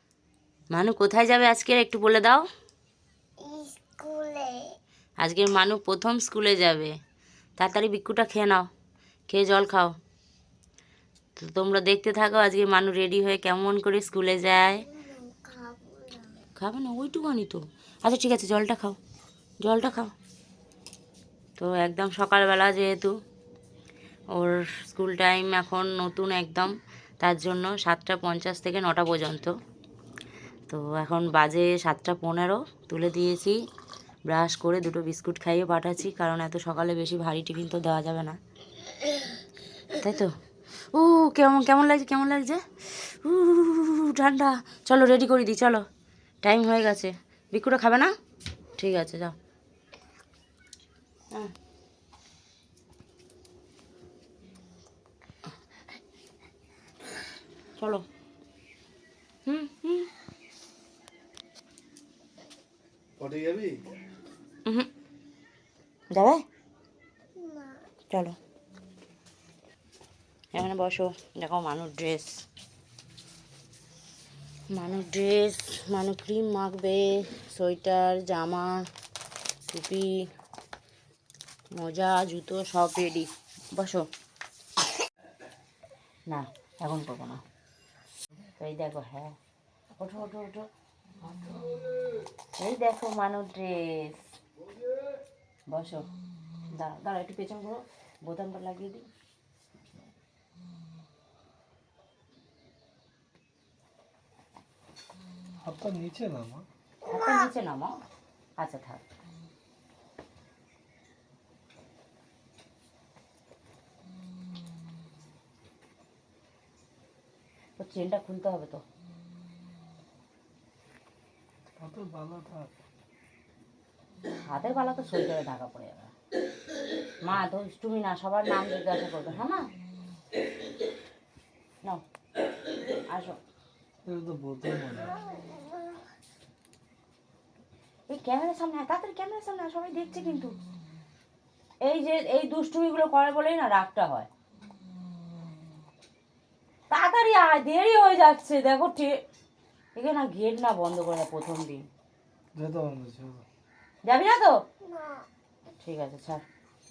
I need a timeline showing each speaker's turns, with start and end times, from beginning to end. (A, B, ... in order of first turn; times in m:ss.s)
0:00.7-0:02.5 A
0:03.4-0:04.8 B
0:05.2-0:06.9 A
0:07.6-0:08.7 A
0:09.3-0:10.0 A
0:11.4-0:15.0 A
0:15.0-0:16.4 B
0:16.6-0:19.0 A
0:19.6-0:20.1 A
0:21.6-0:23.2 A
0:24.3-0:29.6 A
0:30.7-0:33.6 A
0:34.3-0:38.4 A
0:39.9-0:40.4 A
0:40.9-0:45.8 A
0:46.4-0:48.1 A
0:48.8-0:49.4 A
0:57.8-0:58.0 A
0:59.4-1:00.1 A
1:03.2-1:03.8 C
1:06.1-1:06.4 A
1:07.4-1:07.8 B
1:08.1-1:08.4 A
1:10.5-1:12.4 A
1:14.7-1:18.9 A
1:19.7-1:20.3 A
1:21.7-1:24.1 A
1:26.3-1:27.4 A
1:28.6-1:29.4 A
1:30.0-1:30.7 A
1:32.6-1:34.2 A
1:35.7-1:36.1 A
1:36.7-1:39.1 A
1:45.6-1:46.7 C
1:47.1-1:48.0 A
1:48.6-1:49.0 A
1:57.8-1:58.8 A
2:01.8-2:02.7 C
2:04.4-2:06.1 A
2:07.2-2:09.7 A
2:13.0-2:13.4 A
2:14.0-2:15.3 C
2:15.4-2:15.9 B
2:18.1-2:20.6 A
2:21.8-2:24.3 A
2:26.9-2:29.2 A
2:29.9-2:31.8 A
2:32.5-2:33.5 C
2:34.1-2:34.6 A
2:34.8-2:35.2 B
2:35.8-2:36.4 A